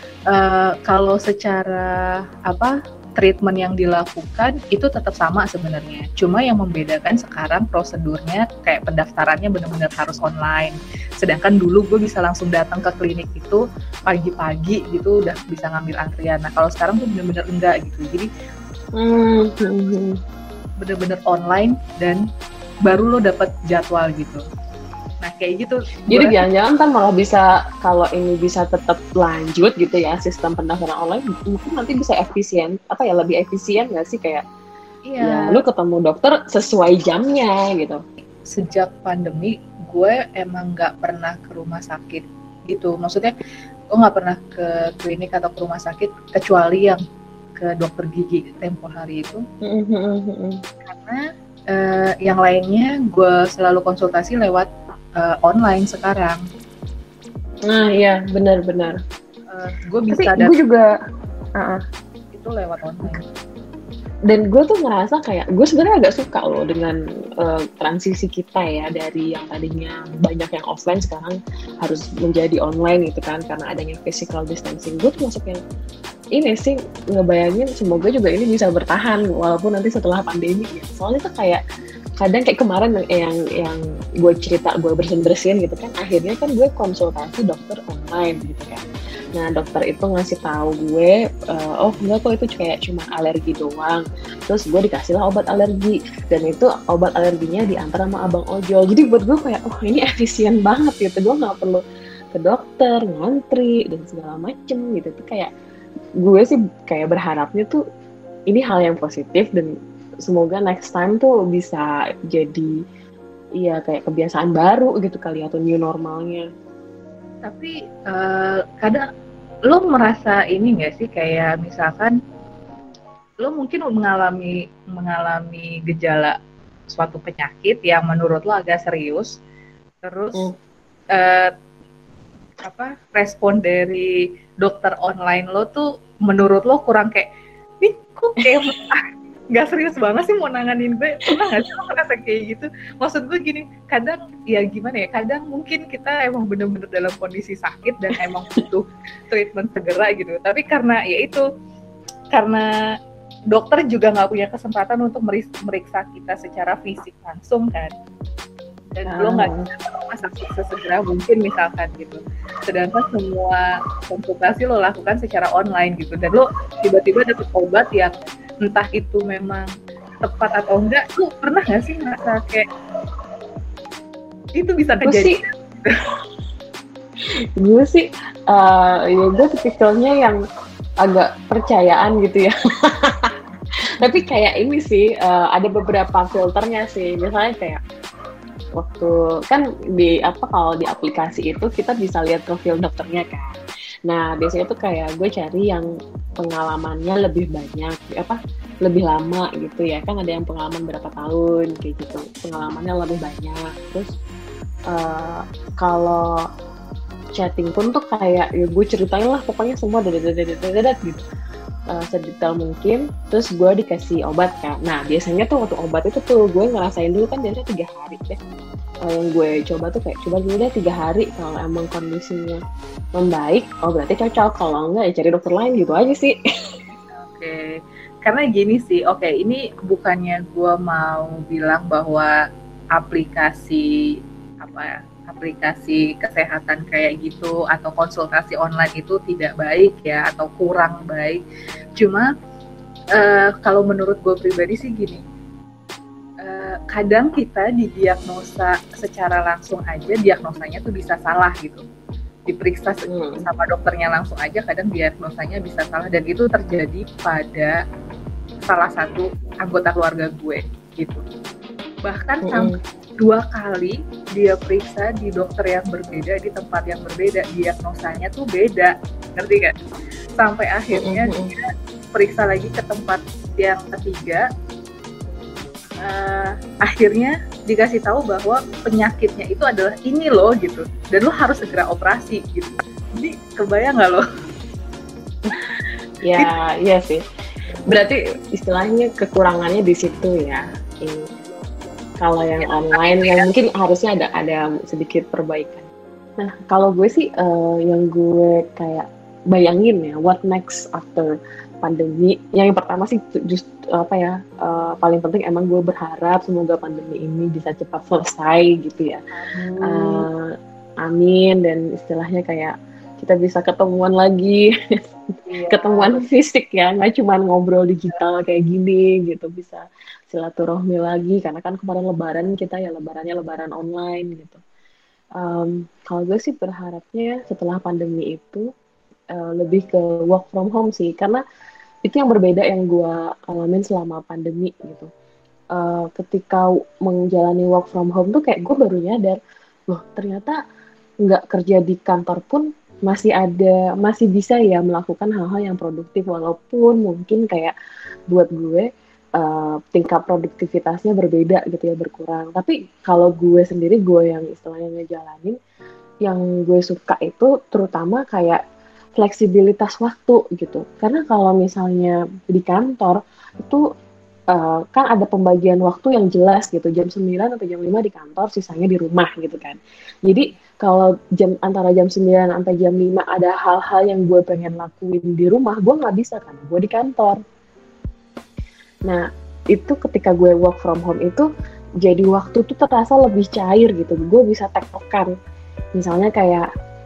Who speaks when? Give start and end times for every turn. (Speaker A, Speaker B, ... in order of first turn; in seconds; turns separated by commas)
Speaker A: 0.3-18.3, Speaker B: 19.0-20.2, Speaker A: 20.8-22.3, Speaker A: 22.9-24.4, Speaker A: 25.2-26.5, Speaker B: 26.1-34.4, Speaker A: 35.1-35.6, Speaker B: 35.2-38.0, Speaker A: 38.5-43.3, Speaker A: 43.9-47.0, Speaker A: 47.6-49.4, Speaker B: 49.6-50.6, Speaker A: 50.9-56.4, Speaker B: 57.7-59.0, Speaker A: 59.5-60.5, Speaker B: 60.1-60.9, Speaker A: 62.3-63.3, Speaker B: 64.3-75.6, Speaker B: 76.3-81.6, Speaker B: 82.2-88.8, Speaker B: 89.3-105.5, Speaker B: 106.2-107.8, Speaker B: 108.5-109.7, Speaker B: 110.2-112.7, Speaker B: 113.6-116.5, Speaker A: 117.5-119.0, Speaker A: 119.7-122.2, Speaker A: 123.4-126.3, Speaker A: 126.9-129.3, Speaker A: 130.0-130.5, Speaker A: 131.1-131.5, Speaker A: 132.6-134.1, Speaker A: 134.6-137.3, Speaker A: 137.8-151.4, Speaker A: 152.3-152.7, Speaker A: 153.5-157.9, Speaker A: 159.0-169.7, Speaker B: 159.1-159.7, Speaker A: 170.2-172.7, Speaker A: 174.6-175.9, Speaker B: 175.0-175.4, Speaker B: 177.6-180.4, Speaker B: 181.0-183.3, Speaker B: 184.0-187.8, Speaker B: 188.8-193.6, Speaker B: 194.1-195.9, Speaker B: 196.4-204.1, Speaker B: 204.9-206.4, Speaker B: 207.4-211.2, Speaker B: 211.9-218.4, Speaker B: 219.1-222.6, Speaker B: 223.2-226.4, Speaker A: 227.1-232.3, Speaker A: 233.0-233.9, Speaker A: 234.6-241.4, Speaker A: 242.0-242.3, Speaker A: 243.2-245.2, Speaker A: 246.4-251.8, Speaker A: 252.5-257.8, Speaker B: 253.1-253.4, Speaker A: 258.6-261.2, Speaker A: 262.1-269.7, Speaker B: 262.4-262.7, Speaker A: 270.4-274.5, Speaker B: 270.9-271.5, Speaker A: 276.0-284.2, Speaker B: 286.2-287.2, Speaker B: 287.9-291.2, Speaker B: 292.2-301.3, Speaker A: 292.6-293.4, Speaker B: 301.8-309.2, Speaker A: 309.3-310.3, Speaker B: 309.8-310.5, Speaker B: 311.0-314.7, Speaker A: 315.5-316.2, Speaker B: 315.7-324.6, Speaker B: 325.4-328.7, Speaker B: 329.3-331.4, Speaker B: 332.1-335.1, Speaker B: 335.8-339.4, Speaker B: 339.9-340.6, Speaker B: 341.2-347.7, Speaker B: 348.3-355.6, Speaker B: 356.2-358.6, Speaker B: 359.2-363.8, Speaker B: 364.5-377.4, Speaker B: 379.7-381.5, Speaker B: 382.0-385.3, Speaker B: 385.9-386.7